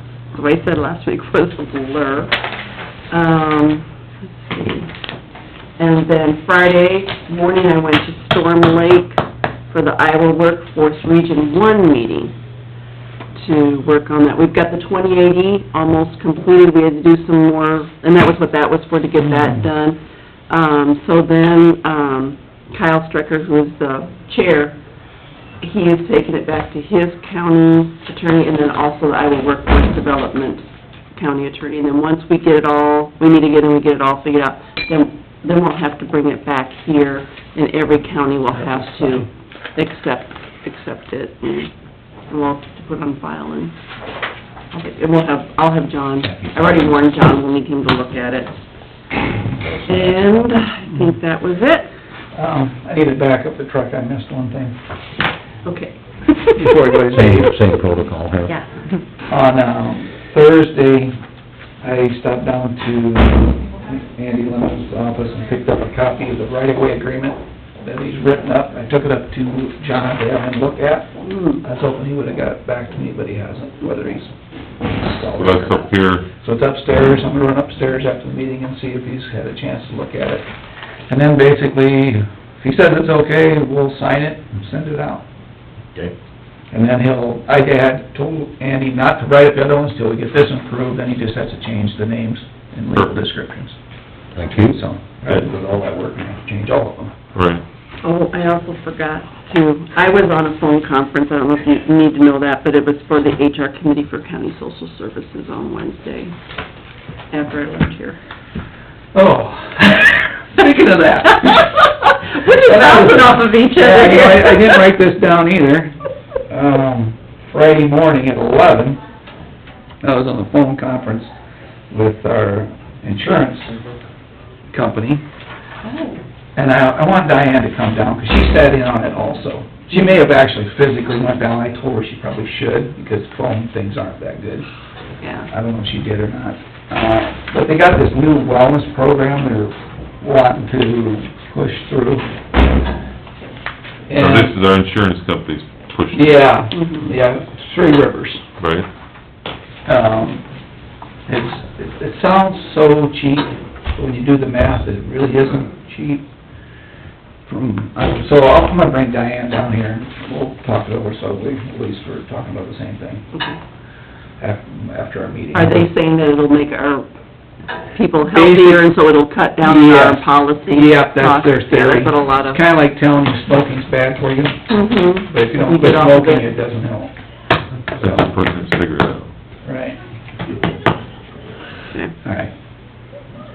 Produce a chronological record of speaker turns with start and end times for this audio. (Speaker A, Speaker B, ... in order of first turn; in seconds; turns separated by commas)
Speaker A: 0.3-2.4, Speaker A: 3.1-4.9, Speaker A: 5.8-12.3, Speaker A: 13.3-24.8, Speaker A: 25.6-41.7, Speaker A: 42.3-43.7, Speaker A: 44.7-48.6, Speaker A: 49.9-51.9, Speaker B: 49.9-50.2, Speaker C: 52.4-54.8, Speaker A: 55.6-56.8, Speaker C: 56.5-57.5, Speaker B: 57.1-58.6, Speaker C: 59.3-61.2, Speaker C: 61.8-71.1, Speaker A: 71.2-71.6, Speaker C: 71.6-74.3, Speaker C: 74.8-80.5, Speaker D: 75.3-76.3, Speaker C: 81.1-85.2, Speaker C: 86.7-93.8, Speaker B: 94.3-94.8, Speaker C: 94.5-97.2, Speaker D: 97.3-97.6, Speaker A: 98.0-106.3, Speaker A: 107.3-108.2, Speaker C: 109.1-111.9, Speaker A: 111.4-114.9, Speaker C: 112.7-115.9, Speaker C: 116.5-119.0, Speaker C: 120.0-121.3, Speaker C: 121.9-123.8, Speaker C: 124.7-125.2, Speaker A: 125.8-126.2, Speaker C: 126.6-134.7, Speaker A: 135.2-135.5, Speaker C: 135.5-142.3, Speaker C: 144.1-144.6, Speaker D: 144.2-146.4, Speaker C: 146.1-148.4, Speaker A: 146.7-147.1, Speaker D: 148.6-148.9, Speaker C: 149.9-150.4, Speaker C: 151.3-156.2, Speaker C: 157.5-163.3, Speaker A: 163.3-163.6, Speaker C: 164.4-165.9, Speaker A: 165.5-167.1, Speaker A: 167.9-172.6, Speaker C: 168.3-168.8, Speaker C: 169.6-177.1, Speaker A: 174.7-176.5, Speaker D: 177.9-179.3, Speaker C: 179.6-180.0, Speaker C: 182.2-182.5